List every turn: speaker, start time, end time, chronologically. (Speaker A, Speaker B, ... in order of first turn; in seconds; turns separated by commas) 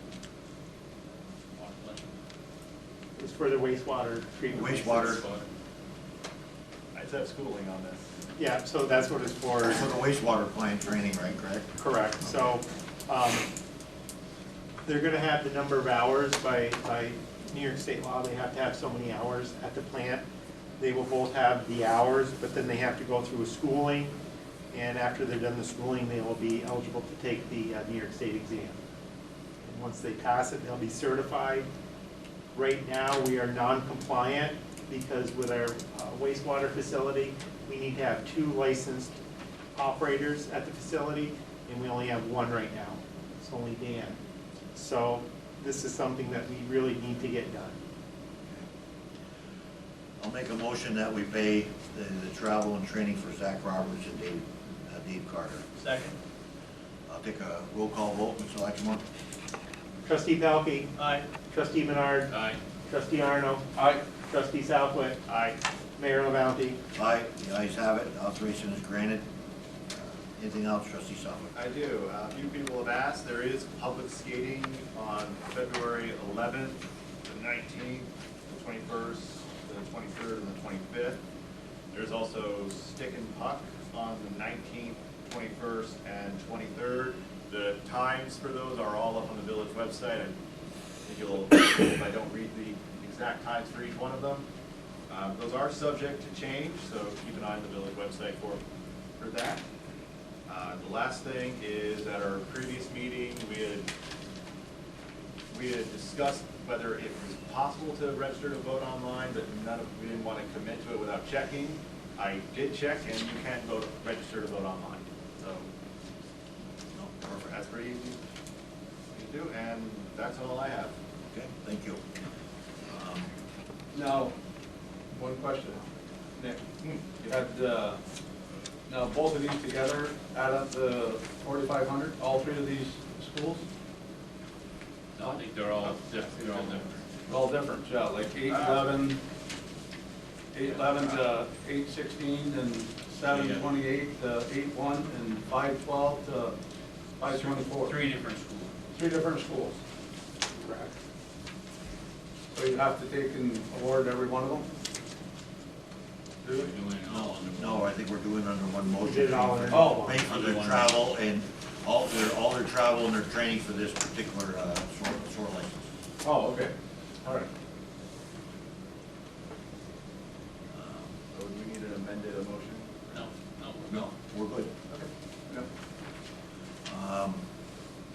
Speaker A: 1.6-2.1, Speaker B: 3.2-5.2, Speaker C: 4.5-5.2, Speaker A: 4.6-5.5, Speaker D: 6.9-8.0, Speaker B: 8.4-9.9, Speaker C: 9.6-11.7, Speaker B: 11.8-13.5, Speaker B: 14.8-20.2, Speaker B: 20.8-24.1, Speaker B: 24.7-28.8, Speaker B: 29.6-31.7, Speaker B: 32.5-39.2, Speaker B: 39.8-44.2, Speaker B: 44.7-47.8, Speaker C: 50.2-55.6, Speaker D: 55.8-56.2, Speaker C: 57.1-59.0, Speaker B: 60.0-60.9, Speaker D: 61.0-61.2, Speaker B: 61.5-62.3, Speaker A: 62.3-62.6, Speaker B: 62.9-65.2, Speaker E: 63.8-64.0, Speaker D: 65.3-65.6, Speaker B: 66.0-66.8, Speaker C: 67.0-69.2, Speaker C: 70.0-71.5, Speaker D: 71.5-81.2, Speaker D: 81.9-90.3, Speaker D: 91.1-94.4, Speaker D: 95.1-98.6, Speaker D: 99.2-99.6, Speaker D: 100.5-103.9, Speaker D: 105.5-115.7, Speaker C: 116.9-117.6, Speaker D: 117.5-118.2, Speaker D: 119.2-120.9, Speaker C: 121.3-122.0, Speaker C: 122.9-123.3, Speaker E: 123.9-124.3, Speaker E: 125.1-125.8, Speaker E: 126.4-126.6, Speaker E: 127.2-128.0, Speaker E: 128.9-133.6, Speaker A: 135.2-137.0, Speaker E: 136.4-136.7, Speaker E: 137.3-139.2, Speaker E: 140.5-146.6, Speaker A: 140.6-141.2, Speaker A: 143.2-143.7, Speaker E: 147.2-148.0, Speaker A: 147.3-148.7, Speaker E: 148.9-149.8, Speaker E: 150.6-150.9, Speaker E: 152.5-154.7, Speaker E: 156.4-156.7, Speaker A: 156.5-157.9, Speaker C: 157.1-165.7, Speaker B: 159.0-160.2, Speaker E: 159.7-160.1, Speaker A: 160.1-161.0, Speaker E: 166.2-167.5, Speaker C: 170.7-171.1, Speaker D: 171.3-173.3, Speaker A: 173.1-174.1, Speaker C: 173.9-174.8, Speaker C: 176.9-177.4